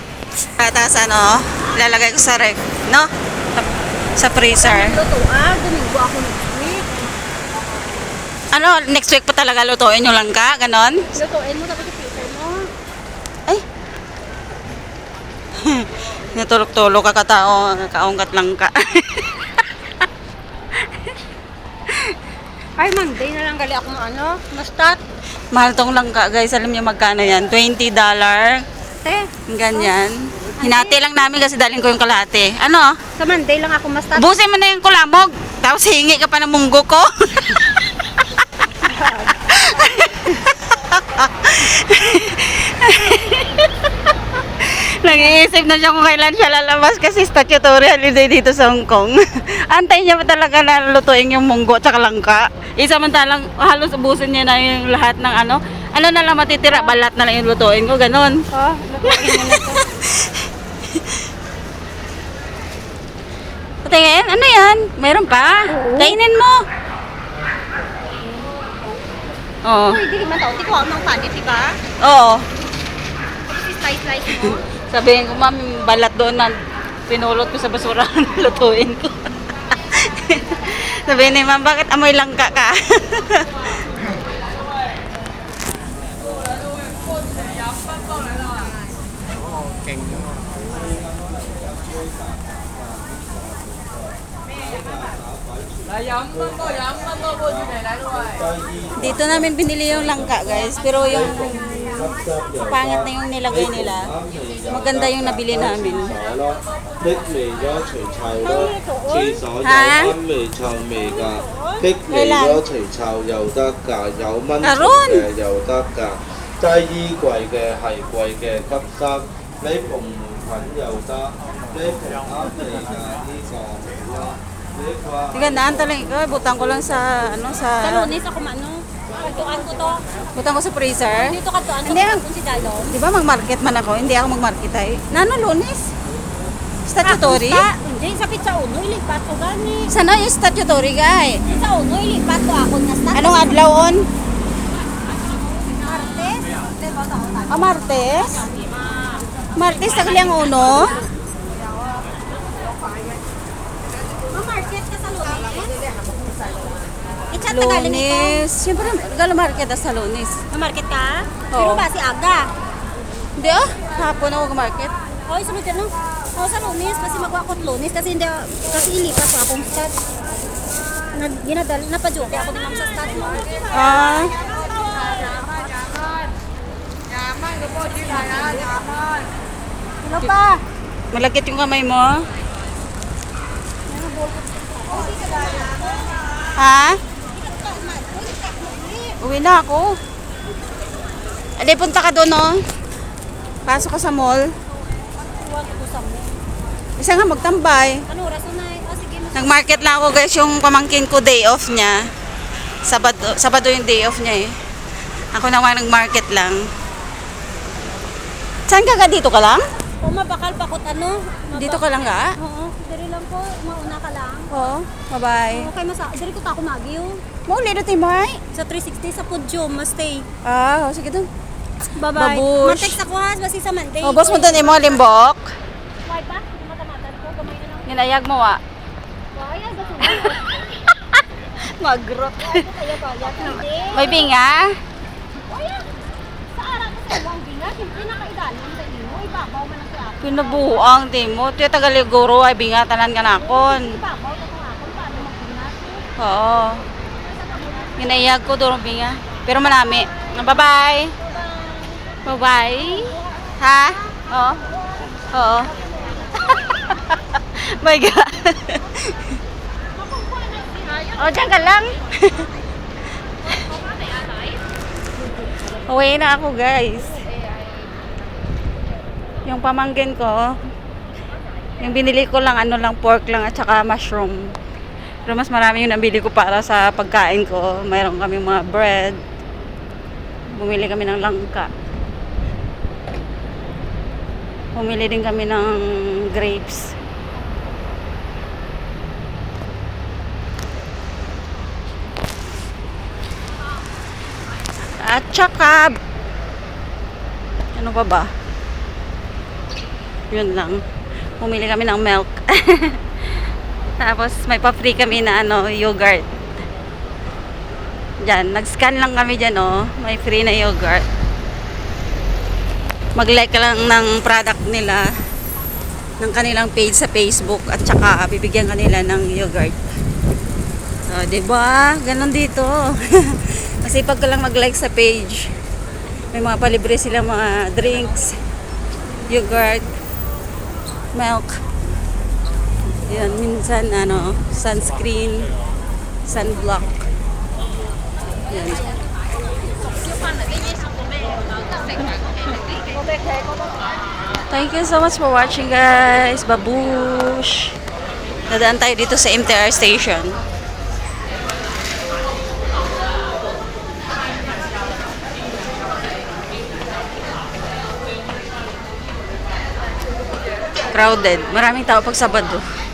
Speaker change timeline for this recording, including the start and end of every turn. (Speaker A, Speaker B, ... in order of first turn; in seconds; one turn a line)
Speaker A: 0.6-5.0
Speaker B: 4.4-7.0
Speaker A: 8.5-11.1
Speaker B: 11.1-12.7
Speaker A: 15.6-19.6
Speaker B: 22.8-25.0
Speaker A: 25.5-28.6
Speaker B: 29.0-29.9
Speaker A: 29.5-33.0
Speaker B: 30.6-30.9
Speaker B: 33.1-34.4
Speaker A: 34.1-37.8
Speaker B: 38.8-39.4
Speaker A: 39.4-43.9
Speaker A: 44.5-58.4
Speaker B: 56.6-57.0
Speaker B: 58.5-59.9
Speaker A: 59.1-60.4
Speaker A: 63.8-66.6
Speaker B: 65.7-66.2
Speaker A: 69.6-70.0
Speaker B: 69.9-71.8
Speaker A: 72.0-72.4
Speaker B: 73.5-74.6
Speaker A: 74.4-79.3
Speaker A: 79.9-83.5
Speaker A: 99.0-101.8
Speaker B: 101.2-102.5
Speaker A: 102.7-104.1
Speaker A: 104.7-106.2
Speaker C: 107.2-108.2
Speaker B: 108.4-109.5
Speaker A: 109.6-110.2
Speaker C: 110.5-110.8
Speaker B: 110.8-111.9
Speaker A: 112.1-112.6
Speaker C: 112.6-112.9
Speaker A: 114.6-115.3
Speaker C: 116.6-119.0
Speaker C: 119.7-121.0
Speaker C: 121.8-124.1
Speaker A: 125.3-128.1
Speaker B: 127.8-130.0
Speaker A: 130.3-132.2
Speaker B: 131.1-133.0
Speaker A: 132.9-135.9
Speaker A: 136.9-137.7
Speaker B: 137.0-139.9
Speaker A: 139.9-141.4
Speaker B: 141.4-143.6
Speaker A: 143.1-144.1
Speaker B: 145.6-148.8
Speaker A: 147.5-148.4
Speaker A: 149.6-150.9
Speaker B: 149.8-151.0
Speaker B: 154.3-155.9
Speaker B: 157.3-158.5
Speaker A: 157.5-160.4
Speaker B: 160.5-162.5
Speaker A: 161.5-161.8
Speaker A: 163.4-164.9
Speaker B: 165.3-169.9
Speaker B: 171.1-176.1
Speaker A: 173.7-174.3
Speaker B: 177.5-179.3
Speaker B: 180.0-180.6
Speaker A: 181.1-182.2
Speaker B: 183.9-186.3
Speaker A: 186.6-187.0
Speaker B: 187.3-189.2
Speaker A: 189.2-190.0
Speaker A: 191.6-192.6
Speaker A: 193.6-194.4
Speaker B: 195.2-196.4
Speaker A: 197.0-198.0
Speaker B: 198.1-199.6
Speaker A: 199.3-202.1
Speaker A: 202.8-204.6
Speaker A: 205.3-206.7
Speaker A: 208.7-209.6
Speaker B: 210.0-214.5
Speaker A: 211.5-212.3
Speaker A: 214.5-215.7
Speaker B: 215.5-217.2
Speaker A: 217.5-218.4
Speaker B: 218.5-220.3
Speaker A: 220.4-221.3
Speaker B: 221.9-225.0
Speaker A: 222.1-223.0
Speaker A: 224.0-225.5
Speaker B: 226.0-228.0
Speaker A: 227.8-228.6
Speaker B: 229.3-230.6
Speaker A: 231.6-232.6
Speaker B: 232.4-234.3
Speaker A: 233.9-234.8
Speaker B: 235.4-235.9
Speaker B: 236.5-240.9
Speaker A: 240.2-244.0
Speaker B: 243.2-246.0
Speaker A: 246.2-246.8
Speaker B: 247.2-248.2
Speaker A: 248.0-251.1
Speaker B: 250.2-253.5
Speaker A: 252.2-254.6
Speaker B: 254.6-256.5
Speaker A: 255.3-255.7
Speaker A: 256.7-259.2
Speaker B: 259.9-261.6
Speaker A: 261.2-262.5
Speaker A: 265.9-267.2
Speaker A: 269.4-270.4
Speaker A: 271.8-274.5
Speaker A: 275.2-279.2
Speaker A: 280.5-281.7
Speaker A: 284.8-286.9
Speaker A: 295.0-296.0
Speaker A: 297.8-298.3
Speaker A: 300.3-300.8
Speaker A: 301.4-303.0
Speaker A: 304.0-306.2
Speaker A: 308.2-311.0
Speaker A: 313.1-315.1
Speaker A: 316.2-319.8
Speaker A: 321.1-325.5
Speaker A: 326.3-328.4
Speaker A: 329.3-329.8
Speaker A: 331.1-331.6
Speaker A: 333.0-335.5
Speaker A: 336.3-337.1
Speaker A: 338.5-338.8
Speaker B: 340.1-340.6
Speaker B: 341.6-343.9
Speaker A: 344.5-347.7
Speaker A: 348.5-350.4
Speaker A: 360.9-362.6